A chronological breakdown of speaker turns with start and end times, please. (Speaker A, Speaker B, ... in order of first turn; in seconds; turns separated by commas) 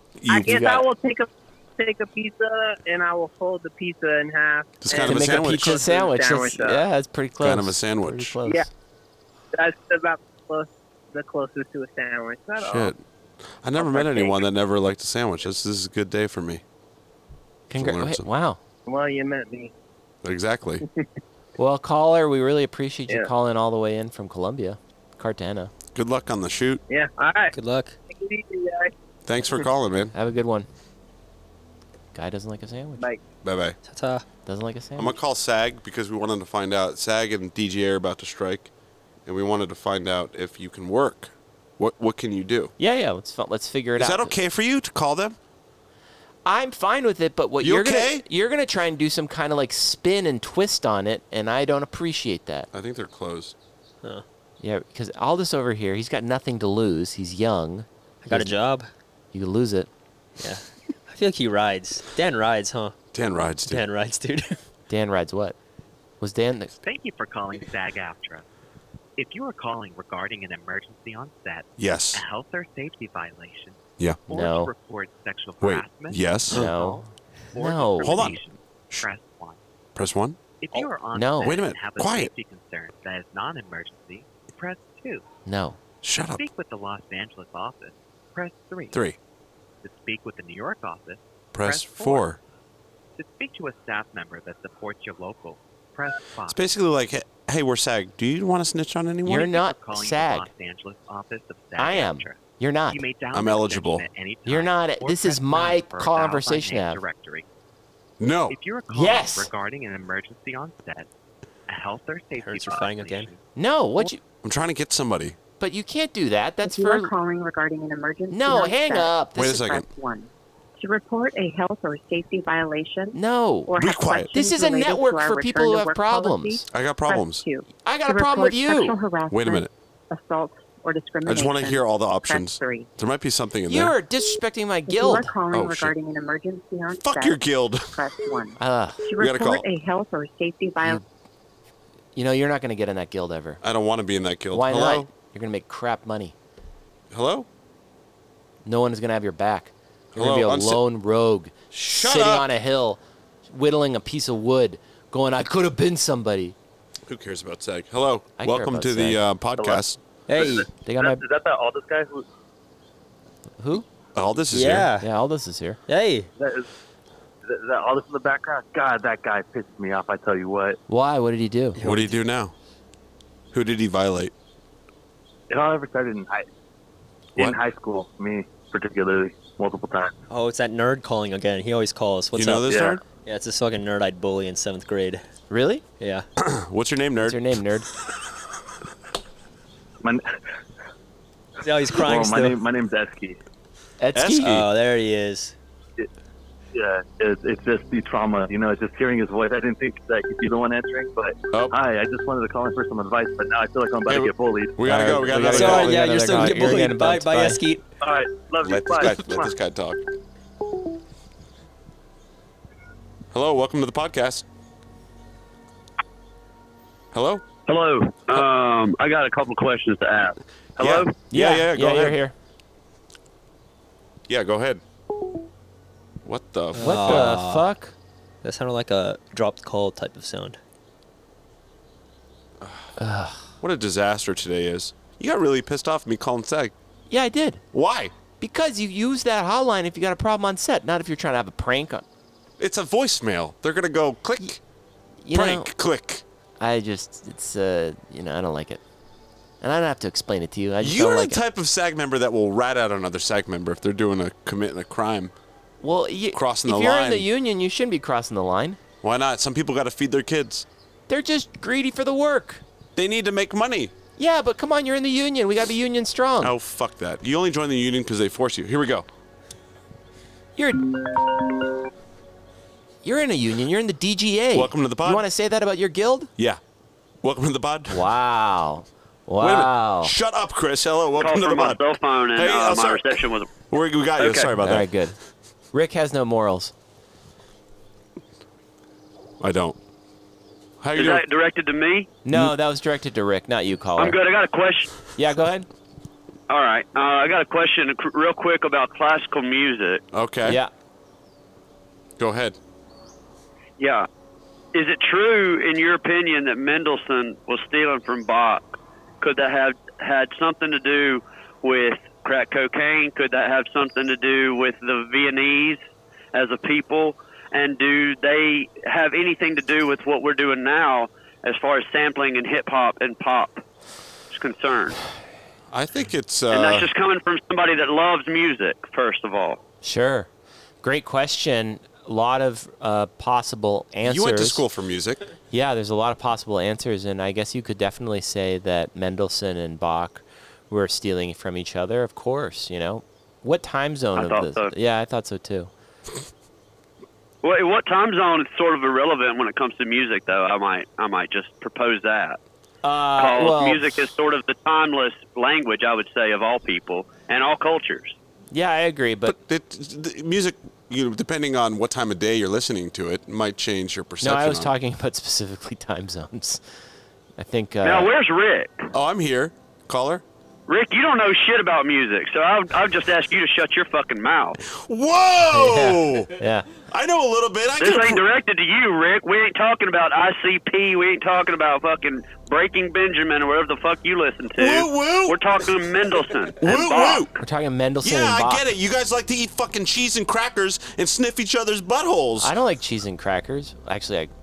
Speaker A: 0.2-0.7, Speaker B: 0.3-6.8, Speaker C: 0.5-0.8, Speaker A: 4.8-5.8, Speaker C: 4.9-8.7, Speaker A: 7.4-8.3, Speaker B: 9.5-12.9, Speaker A: 12.6-13.0, Speaker A: 13.6-16.6, Speaker B: 13.8-14.4, Speaker C: 17.7-18.6, Speaker A: 17.7-18.3, Speaker B: 18.9-19.7, Speaker A: 20.2-20.8, Speaker C: 21.6-25.7, Speaker A: 25.9-26.8, Speaker B: 26.9-27.5, Speaker D: 27.5-28.0, Speaker B: 28.1-28.9, Speaker A: 29.2-30.1, Speaker C: 30.1-30.7, Speaker C: 32.1-33.0, Speaker A: 33.4-33.8, Speaker D: 33.8-34.2, Speaker C: 34.4-35.1, Speaker A: 35.0-38.7, Speaker A: 39.2-42.7, Speaker C: 42.8-44.3, Speaker A: 44.0-45.4, Speaker C: 46.4-52.7, Speaker A: 47.6-48.2, Speaker A: 52.7-53.5, Speaker C: 54.6-58.5, Speaker D: 58.2-58.9, Speaker C: 59.3-59.9, Speaker D: 60.4-62.9, Speaker A: 63.1-63.9, Speaker D: 63.7-64.6, Speaker C: 64.9-65.6, Speaker C: 66.2-66.7, Speaker E: 66.8-68.4, Speaker E: 69.2-77.0, Speaker A: 71.8-72.2, Speaker C: 74.3-74.7, Speaker A: 75.6-76.7, Speaker C: 76.5-78.4, Speaker E: 77.5-79.6, Speaker A: 78.0-78.4, Speaker A: 80.0-80.4, Speaker E: 80.6-85.2, Speaker C: 81.1-81.6, Speaker A: 81.4-82.3, Speaker C: 85.5-85.8, Speaker A: 86.0-86.4, Speaker E: 86.3-89.0, Speaker A: 88.9-89.2, Speaker E: 89.8-92.3, Speaker A: 91.5-92.4, Speaker E: 93.2-96.6, Speaker A: 96.5-99.5, Speaker C: 99.2-100.5, Speaker E: 99.3-107.5, Speaker C: 101.8-103.0, Speaker A: 103.3-104.0, Speaker C: 104.5-107.0, Speaker A: 108.2-108.6, Speaker E: 108.5-111.1, Speaker C: 108.9-109.5, Speaker E: 111.7-113.4, Speaker D: 112.4-113.3, Speaker C: 113.5-114.2, Speaker A: 114.4-115.4, Speaker C: 115.6-117.1, Speaker F: 116.6-132.9, Speaker C: 118.3-119.6, Speaker A: 119.3-119.8, Speaker C: 123.1-123.7, Speaker A: 123.8-124.3, Speaker C: 124.3-126.6, Speaker A: 126.7-127.4, Speaker C: 127.8-129.0, Speaker A: 129.3-129.7, Speaker A: 131.2-133.9, Speaker C: 133.7-135.3, Speaker F: 134.9-141.0, Speaker A: 135.5-135.9, Speaker A: 137.0-138.0, Speaker C: 138.6-139.0, Speaker A: 139.2-139.6, Speaker C: 142.2-143.6, Speaker A: 143.6-145.1, Speaker C: 144.5-146.3, Speaker A: 147.1-147.5, Speaker C: 148.6-156.5, Speaker A: 150.1-150.8, Speaker A: 151.7-152.5, Speaker A: 157.1-160.0, Speaker C: 158.4-159.2, Speaker D: 160.3-160.7, Speaker G: 160.3-162.2, Speaker C: 160.8-161.2, Speaker C: 163.6-163.9, Speaker A: 164.1-164.9, Speaker D: 164.5-165.1, Speaker C: 165.0-165.8, Speaker D: 165.9-166.3, Speaker G: 166.4-166.7, Speaker G: 167.4-170.8, Speaker C: 170.9-171.8, Speaker D: 171.8-172.2, Speaker A: 171.8-172.5, Speaker A: 173.5-174.3, Speaker G: 175.5-176.5, Speaker G: 177.3-180.1, Speaker D: 180.3-185.2, Speaker A: 182.3-183.0, Speaker G: 182.7-183.0, Speaker C: 185.5-185.8, Speaker D: 186.0-186.2, Speaker A: 186.4-187.4, Speaker C: 187.2-187.9, Speaker D: 191.6-192.6, Speaker G: 192.0-193.4, Speaker C: 194.0-194.5, Speaker A: 194.1-194.7, Speaker D: 194.4-195.6, Speaker G: 196.7-204.8, Speaker A: 201.5-201.8, Speaker A: 204.1-206.1, Speaker C: 204.8-207.6, Speaker D: 205.3-207.9, Speaker G: 208.0-209.5, Speaker A: 208.6-210.0, Speaker A: 213.3-214.4, Speaker A: 217.1-217.4, Speaker G: 217.7-221.1, Speaker H: 218.3-219.0, Speaker H: 219.6-220.0, Speaker A: 220.8-222.2, Speaker C: 221.3-222.3, Speaker A: 224.3-224.8, Speaker A: 226.2-227.3, Speaker D: 226.7-227.7, Speaker C: 226.8-227.9, Speaker D: 228.4-230.6, Speaker A: 232.6-232.9, Speaker C: 233.0-233.5, Speaker A: 233.6-236.7, Speaker C: 237.1-237.6, Speaker A: 237.7-238.1, Speaker C: 238.4-242.0, Speaker A: 242.6-244.6, Speaker C: 245.2-245.7, Speaker A: 245.3-246.2, Speaker C: 246.6-248.8, Speaker C: 249.6-251.4, Speaker A: 250.8-255.3, Speaker C: 255.8-258.8, Speaker A: 256.3-257.3, Speaker A: 259.0-260.6, Speaker C: 261.1-262.6, Speaker A: 262.9-263.9, Speaker C: 264.2-266.5, Speaker A: 266.4-269.1, Speaker C: 270.6-270.9, Speaker C: 273.0-276.3, Speaker A: 274.5-275.2, Speaker A: 277.2-278.0, Speaker C: 277.9-280.1, Speaker A: 279.4-281.8, Speaker H: 281.2-283.5, Speaker A: 282.3-284.9, Speaker H: 284.2-284.5, Speaker C: 284.6-285.1, Speaker C: 285.7-286.7, Speaker A: 289.4-289.8, Speaker A: 290.8-291.2, Speaker H: 290.9-292.1, Speaker C: 292.2-294.2, Speaker H: 294.0-294.9, Speaker C: 295.1-295.7, Speaker H: 296.5-300.0, Speaker A: 300.1-300.6, Speaker C: 300.4-300.7, Speaker A: 302.2-302.6, Speaker H: 303.8-304.1, Speaker H: 304.7-315.8, Speaker H: 316.3-323.6, Speaker H: 324.3-325.0, Speaker A: 325.7-326.9, Speaker H: 326.5-329.6, Speaker C: 329.8-330.3, Speaker C: 330.8-334.6, Speaker A: 334.0-335.2, Speaker C: 335.5-345.7, Speaker H: 344.1-344.7, Speaker H: 347.4-352.4, Speaker C: 352.8-353.8, Speaker H: 353.2-358.1, Speaker C: 358.5-359.3, Speaker A: 359.2-364.7, Speaker C: 364.2-366.6, Speaker C: 367.4-368.1, Speaker H: 367.8-368.9, Speaker A: 368.9-370.2, Speaker H: 370.7-374.6, Speaker A: 374.7-376.3, Speaker C: 375.5-376.7, Speaker A: 376.9-378.2, Speaker H: 377.8-387.4, Speaker A: 384.6-385.6, Speaker A: 386.6-387.3, Speaker C: 387.4-388.6, Speaker A: 388.0-392.5, Speaker C: 392.4-394.3